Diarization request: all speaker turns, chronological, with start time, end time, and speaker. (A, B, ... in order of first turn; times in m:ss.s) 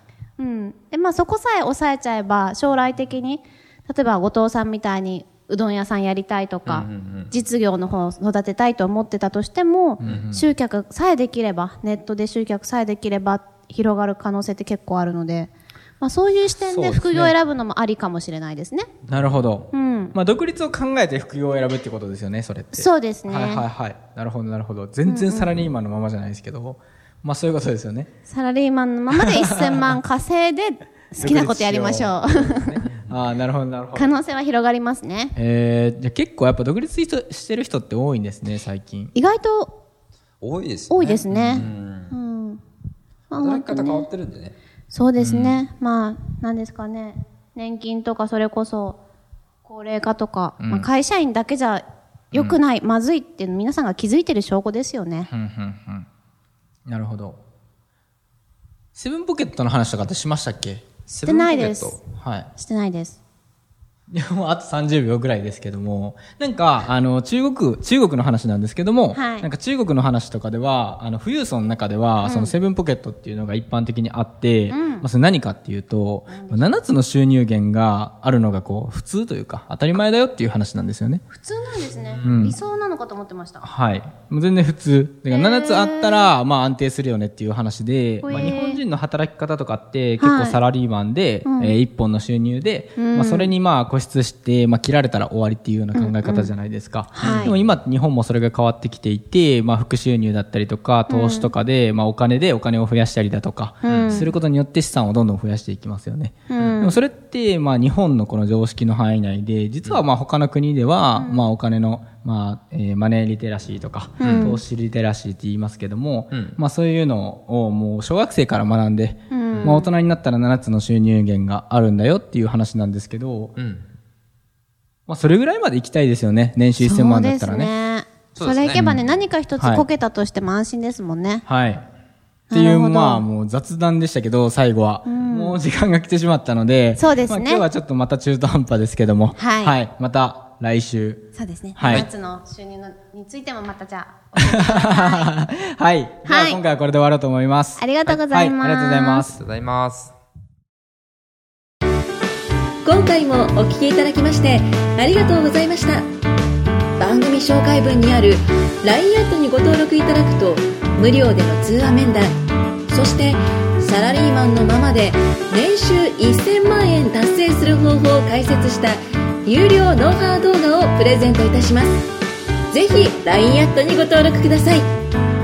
0:00.4-0:18.9 A
0:06.6-0:07.3 B
0:10.0-0:10.4 C
0:10.0-0:10.3 B
0:16.7-0:17.4 C
0:19.1-0:28.1 C
0:19.1-0:19.4 B
0:19.7-0:20.1 A
0:22.7-0:23.7 A
0:25.0-0:25.6 A
0:28.2-0:32.8 A
0:29.2-0:30.0 C
0:31.2-0:34.2 C
0:33.9-0:35.4 A
0:35.3-0:39.1 C
0:39.1-0:39.7 A
0:40.4-0:42.1 B
0:40.9-0:42.6 A
0:41.3-0:41.7 C
0:43.3-0:44.1 A
0:43.3-0:44.6 B
0:44.9-0:49.0 A
0:45.2-0:45.5 C
0:49.6-0:55.3 A
0:50.6-0:50.9 C
0:55.3-0:56.1 C
0:56.9-0:57.4 C
0:58.9-1:00.8 C
1:01.1-1:02.0 B
1:01.2-1:02.0 A
1:02.2-1:02.5 C
1:02.5-1:03.2 A
1:04.1-1:21.2 C
1:09.1-1:09.5 A
1:12.2-1:12.6 A
1:14.7-1:15.1 A
1:16.3-1:16.8 A
1:21.3-1:23.7 A
1:22.0-1:22.4 B
1:22.2-1:22.6 C
1:23.6-2:03.5 C
1:25.3-1:26.3 A
1:28.2-1:28.8 A
1:30.2-1:30.6 A
1:31.4-1:31.8 A
1:33.0-1:33.5 A
1:35.9-1:36.5 A
1:37.1-1:37.5 A
1:37.2-1:37.7 B
1:41.1-1:41.5 A
1:43.8-1:44.3 A
1:43.9-1:44.3 B
1:46.5-1:47.0 A
1:51.2-1:51.4 A
1:54.2-1:54.6 A
1:54.2-1:54.6 B
1:56.3-1:56.6 B
1:59.3-1:59.9 A
1:59.5-1:59.8 B
2:03.6-2:03.8 B
2:05.1-2:07.7 C
2:06.8-2:11.4 A
2:08.3-2:09.1 B
2:08.7-2:09.0 C
2:09.6-2:09.8 C
2:11.4-2:11.8 C
2:12.5-2:13.3 A
2:12.5-2:22.1 C
2:15.0-2:15.6 A
2:17.0-2:17.6 A
2:19.4-2:19.8 A
2:21.3-2:25.3 A
2:21.8-2:22.1 B
2:24.4-2:29.4 C
2:26.2-2:26.6 A
2:27.8-2:29.3 A
2:29.3-2:30.1 B
2:32.8-2:36.1 D
2:37.0-2:52.1 D
2:52.7-2:54.9 D